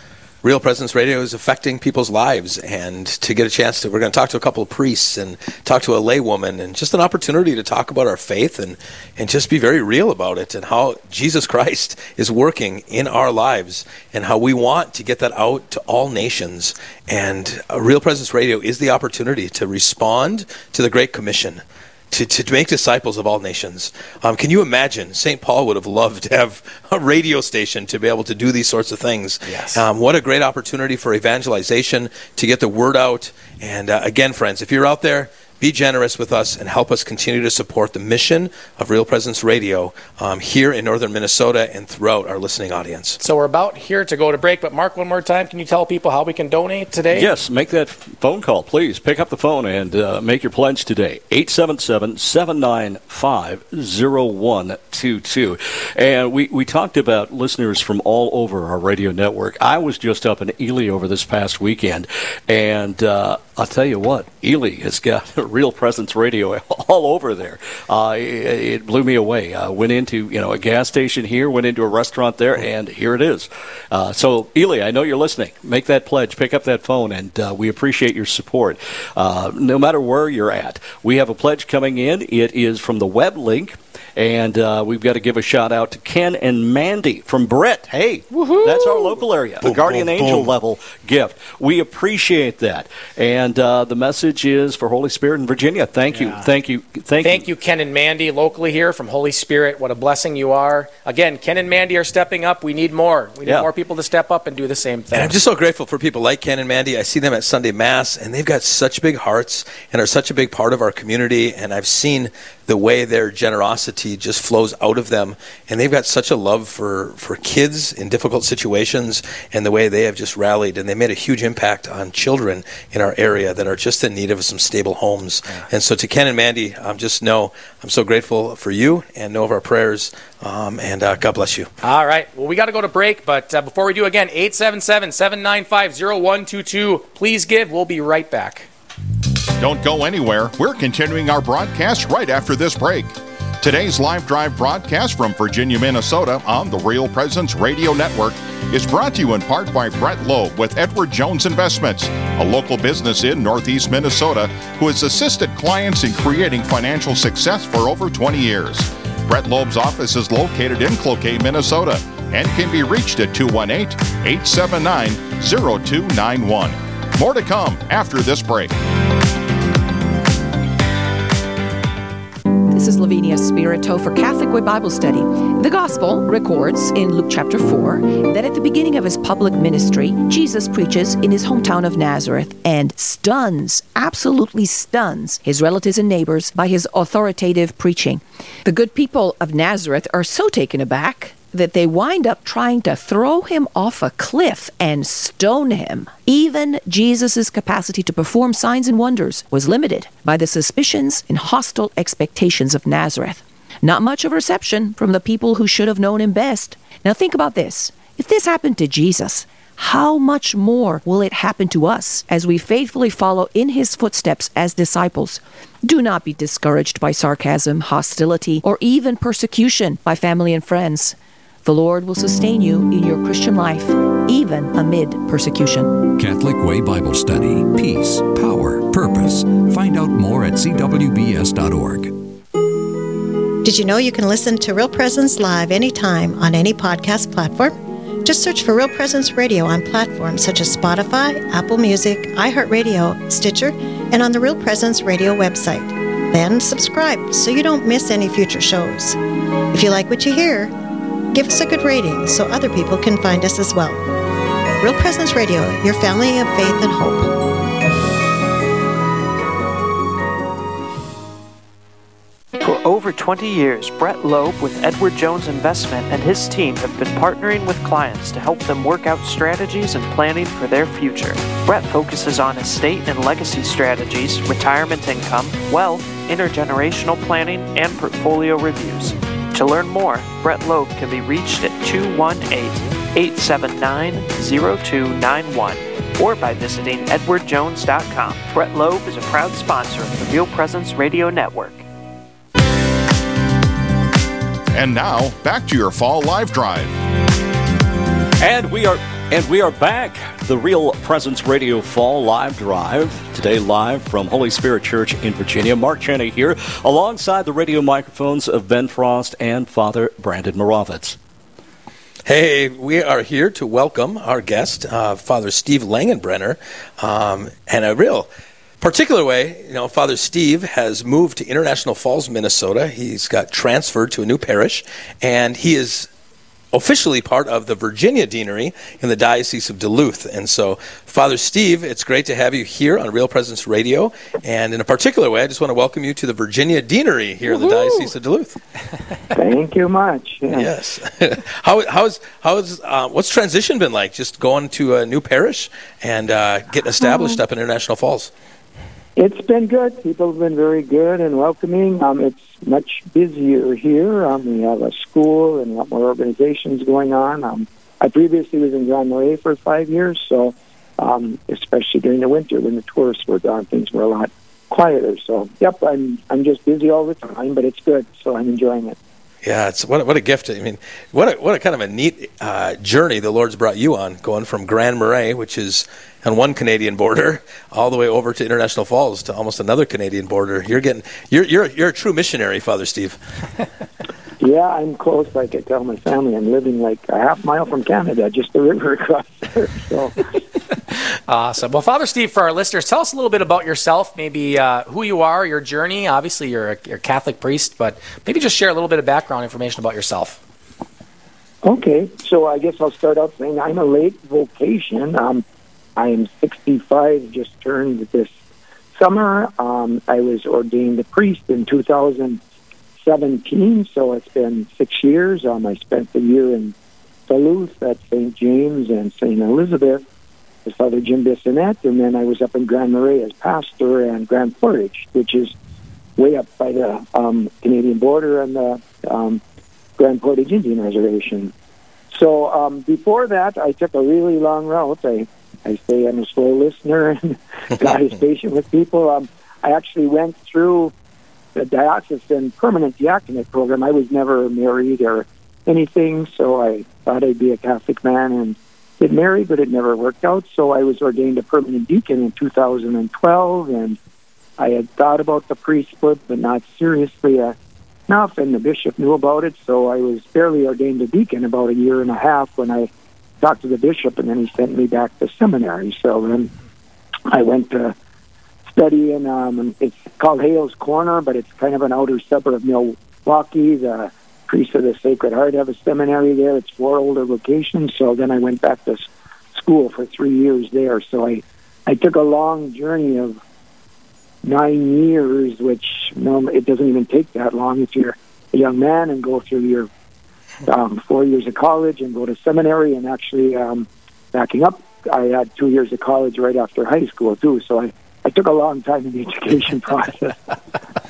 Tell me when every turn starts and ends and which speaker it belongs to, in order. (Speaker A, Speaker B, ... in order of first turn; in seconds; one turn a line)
Speaker A: 0.4-43.2
Speaker B: 29.5-29.8
Speaker B: 43.2-47.3
Speaker C: 47.1-97.5
Speaker A: 89.7-90.4
Speaker B: 96.1-96.5
Speaker B: 97.2-105.3
Speaker A: 105.1-131.7
Speaker B: 131.8-138.7
Speaker D: 139.6-168.7
Speaker E: 172.7-226.1
Speaker F: 226.1-232.2
Speaker G: 233.6-249.2
Speaker G: 249.7-250.8
Speaker G: 251.3-254.1
Speaker G: 254.8-257.4
Speaker H: 262.6-291.9
Speaker D: 294.7-296.9
Speaker C: 298.4-311.2
Speaker A: 312.3-326.1
Speaker A: 326.7-338.6
Speaker I: 339.3-340.7
Speaker A: 340.5-348.3
Speaker I: 349.2-369.0
Speaker A: 369.4-383.2
Speaker I: 384.4-390.2
Speaker B: 391.3-400.4
Speaker I: 401.6-405.4
Speaker I: 406.0-408.3
Speaker I: 409.0-412.4
Speaker I: 413.0-416.7
Speaker I: 417.3-420.0
Speaker I: 420.7-425.5
Speaker I: 426.2-429.4
Speaker I: 430.0-431.5
Speaker I: 432.1-440.9
Speaker I: 441.6-454.0
Speaker I: 454.6-457.6
Speaker I: 458.1-462.9
Speaker I: 463.4-466.5
Speaker I: 467.3-467.9
Speaker I: 468.7-483.4
Speaker I: 484.4-489.9
Speaker I: 490.7-500.4